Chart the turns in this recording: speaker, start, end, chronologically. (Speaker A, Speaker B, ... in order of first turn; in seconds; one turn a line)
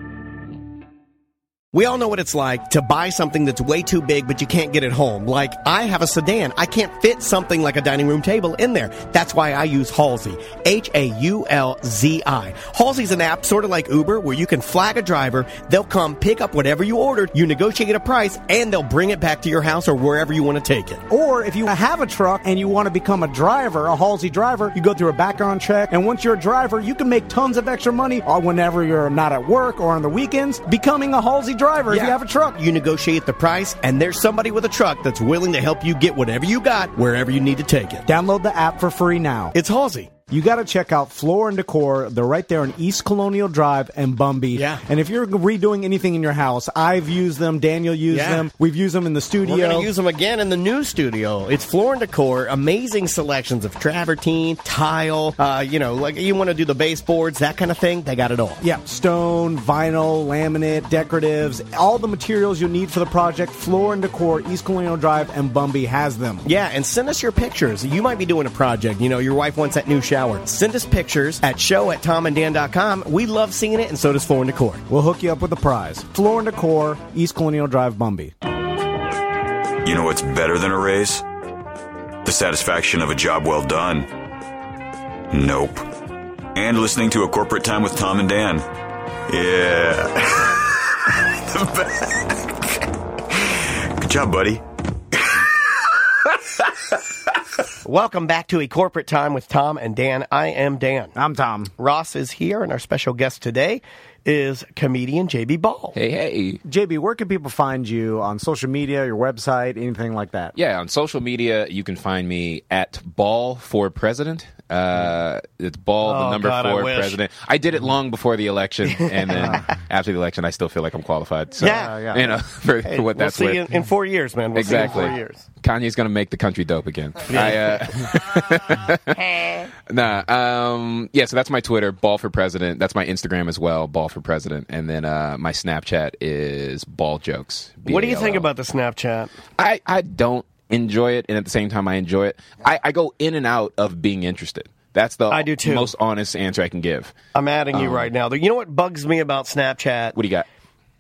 Speaker A: 1.7-21.0
Speaker B: 21.1-32.6
Speaker A: 31.9-38.1
Speaker B: 38.1-39.5
Speaker A: 39.5-40.1
Speaker B: 40.3-49.9
Speaker A: 44.5-44.8
Speaker A: 48.1-48.5
Speaker A: 49.4-58.6
Speaker B: 58.6-66.5
Speaker A: 66.4-74.8
Speaker B: 74.9-78.3
Speaker C: 79.8-81.2
Speaker C: 82.2-84.1
Speaker C: 85.3-85.9
Speaker C: 86.5-88.7
Speaker C: 89.3-97.0
Speaker A: 97.8-101.2
Speaker B: 101.2-101.7
Speaker A: 101.8-106.0
Speaker D: 106.0-106.6
Speaker B: 106.7-110.5
Speaker D: 110.5-123.6
Speaker A: 116.0-117.2
Speaker A: 118.9-119.6
Speaker B: 119.3-119.6
Speaker A: 121.6-122.0
Speaker B: 121.6-122.3
Speaker A: 122.8-125.4
Speaker D: 124.5-138.5
Speaker A: 127.3-127.7
Speaker A: 137.9-139.3
Speaker D: 139.6-147.1
Speaker A: 145.3-145.9
Speaker A: 147.3-150.2
Speaker D: 147.7-148.1
Speaker D: 150.2-150.5